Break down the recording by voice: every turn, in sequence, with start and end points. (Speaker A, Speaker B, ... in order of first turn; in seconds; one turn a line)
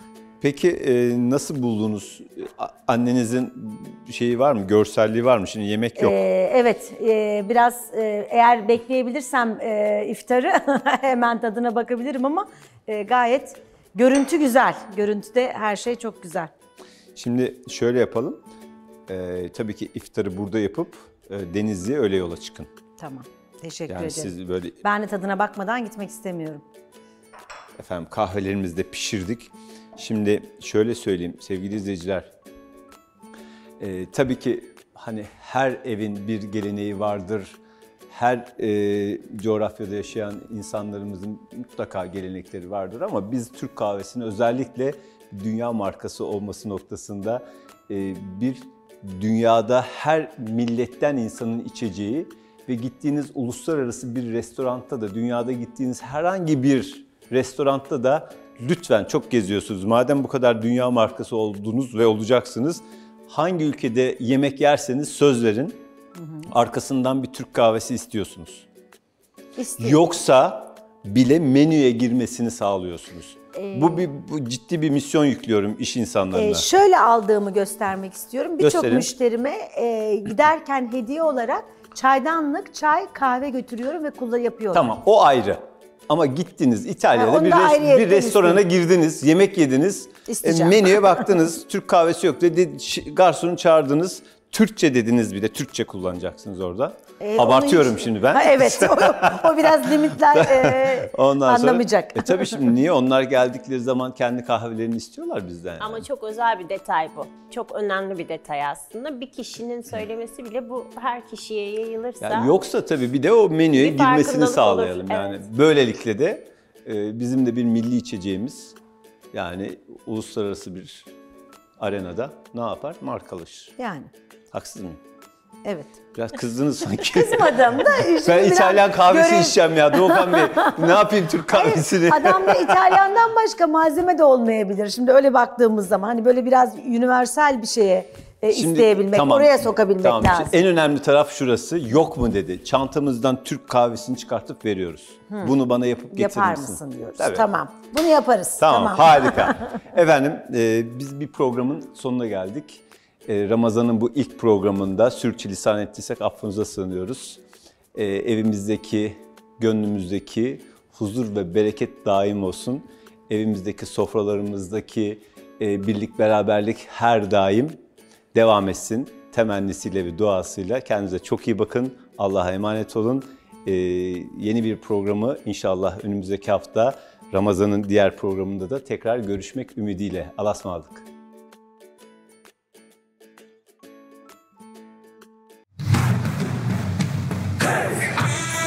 Speaker A: 0.4-6.2
Speaker B: 6.0-16.5
Speaker A: 17.2-18.4
Speaker A: 19.1-22.7
Speaker B: 23.0-26.6
Speaker A: 23.9-24.8
Speaker A: 27.8-32.3
Speaker A: 33.8-65.8
Speaker A: 66.5-68.7
Speaker B: 69.6-70.0
Speaker A: 69.8-76.7
Speaker B: 73.5-74.1
Speaker B: 76.3-84.9
Speaker A: 78.6-79.1
Speaker A: 84.7-106.1
Speaker B: 87.1-88.6
Speaker B: 90.3-91.1
Speaker B: 97.2-102.6
Speaker C: 105.8-112.5
Speaker A: 112.2-118.8
Speaker C: 113.7-115.4
Speaker A: 119.3-121.1
Speaker A: 121.8-123.7
Speaker B: 123.8-124.1
Speaker A: 124.5-125.0
Speaker B: 125.7-126.0
Speaker A: 126.2-133.0
Speaker B: 127.0-140.5
Speaker A: 138.5-147.5
Speaker B: 146.1-149.7
Speaker A: 148.6-157.4
Speaker A: 157.9-167.8
Speaker A: 168.3-181.1